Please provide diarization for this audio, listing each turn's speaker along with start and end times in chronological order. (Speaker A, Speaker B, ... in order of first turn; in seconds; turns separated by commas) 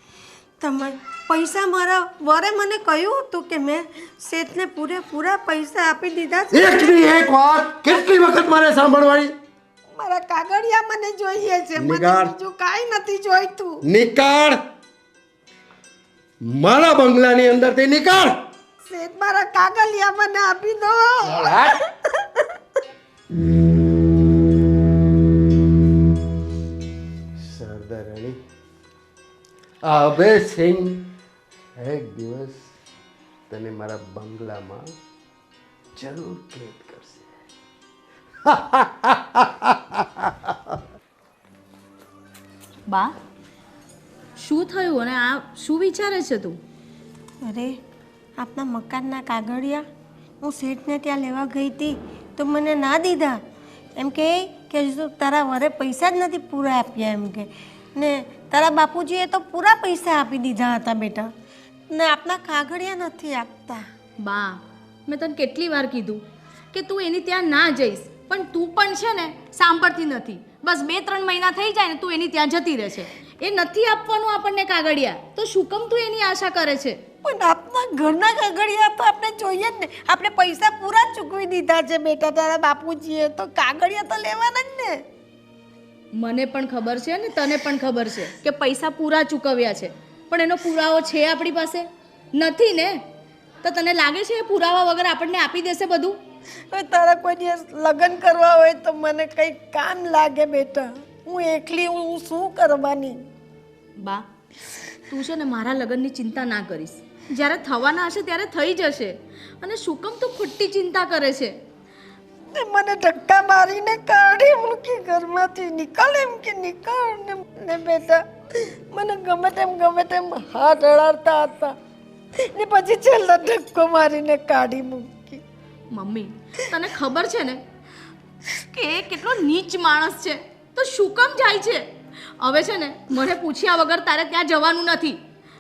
Speaker A: 0.6-7.0, Speaker B: 6.5-9.3, Speaker A: 9.9-13.8, Speaker B: 11.8-12.3, Speaker B: 13.8-14.6, Speaker B: 16.4-18.4, Speaker A: 18.9-22.4, Speaker B: 21.2-21.8, Speaker B: 27.4-28.4, Speaker B: 29.9-31.1, Speaker B: 31.8-32.7, Speaker B: 33.5-34.9, Speaker B: 36.0-37.3, Speaker B: 38.5-40.8, Speaker C: 42.9-43.1, Speaker C: 44.4-46.6, Speaker A: 47.4-47.7, Speaker A: 48.4-49.8, Speaker A: 50.4-53.4, Speaker A: 54.0-61.3, Speaker A: 61.9-63.8, Speaker C: 64.2-66.2, Speaker C: 66.7-77.0, Speaker A: 77.2-85.0, Speaker C: 86.2-93.0, Speaker C: 93.6-96.2, Speaker A: 96.7-103.2, Speaker C: 104.0-104.3, Speaker C: 105.1-111.5, Speaker A: 112.5-121.8, Speaker A: 122.4-125.4, Speaker C: 125.9-127.6, Speaker C: 128.7-131.8, Speaker C: 132.4-135.2